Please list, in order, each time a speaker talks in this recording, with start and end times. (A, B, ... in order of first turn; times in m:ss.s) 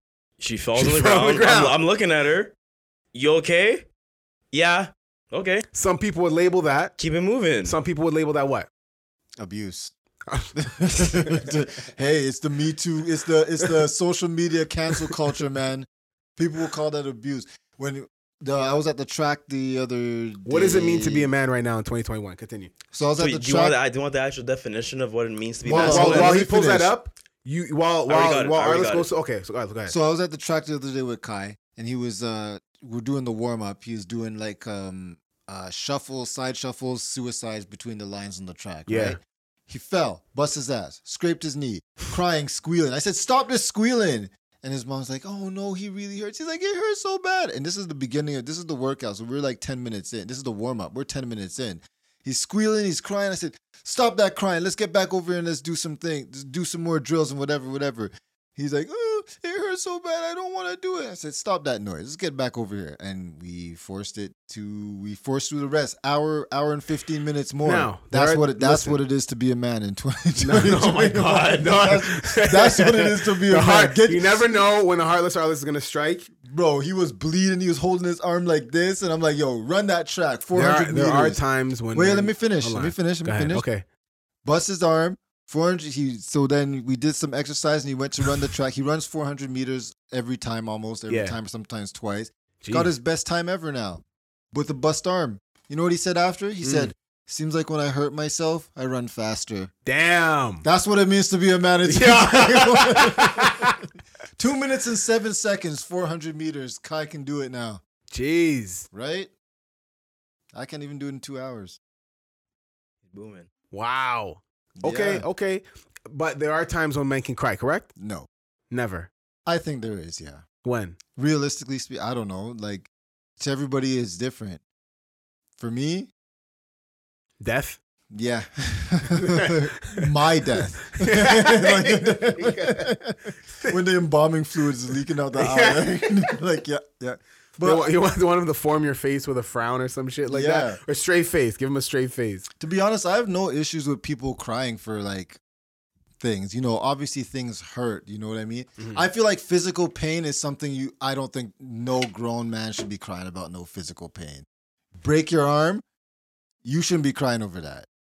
0:00.4-0:02.5 A
0:00.7-0:01.8 B
0:03.1-0:03.8 A
0:04.5-0:05.6 A
0:05.7-0:06.9 B
0:07.0-0:07.8 A
0:07.6-0:08.7 B
0:09.4-0:09.9 C
0:10.3-0:11.3 B
0:10.5-0:21.3 C
0:20.4-0:22.7 B
0:22.9-0:23.8 C
0:23.2-0:26.4 A
0:25.6-0:26.9 C
0:25.7-0:29.9 B
0:28.1-0:29.1 A
0:29.9-1:14.4 C
0:38.9-0:39.2 B
1:07.6-1:09.0 B
1:10.4-1:16.3 B
1:16.4-1:21.4 C
1:20.5-1:23.8 B
1:21.9-1:23.6 C
1:24.4-1:39.7 C
1:31.1-1:31.4 B
1:32.6-1:32.9 B
1:36.6-1:36.9 B
1:39.8-1:40.6 B
1:40.6-1:43.8 C
1:41.8-1:43.8 B
1:44.4-1:47.8 C
1:48.1-1:48.9 B
1:48.9-1:49.3 C
1:50.5-1:51.8 C
1:53.1-1:53.5 A
1:53.7-1:57.9 B
1:54.8-1:55.3 C
1:58.0-1:58.3 C
1:58.7-1:59.1 B
1:59.4-2:00.4 C
2:00.6-2:01.0 B
2:01.1-2:04.6 C
2:05.6-2:06.1 C
2:07.4-2:07.8 B
2:08.1-2:17.9 C
2:09.1-2:10.1 B
2:10.9-2:12.9 B
2:15.3-2:16.3 B
2:17.6-2:22.5 B
2:20.3-2:20.8 C
2:22.6-2:25.4 C
2:26.2-2:34.4 C
2:28.8-2:29.0 B
2:35.0-2:35.8 C
2:36.6-2:37.9 C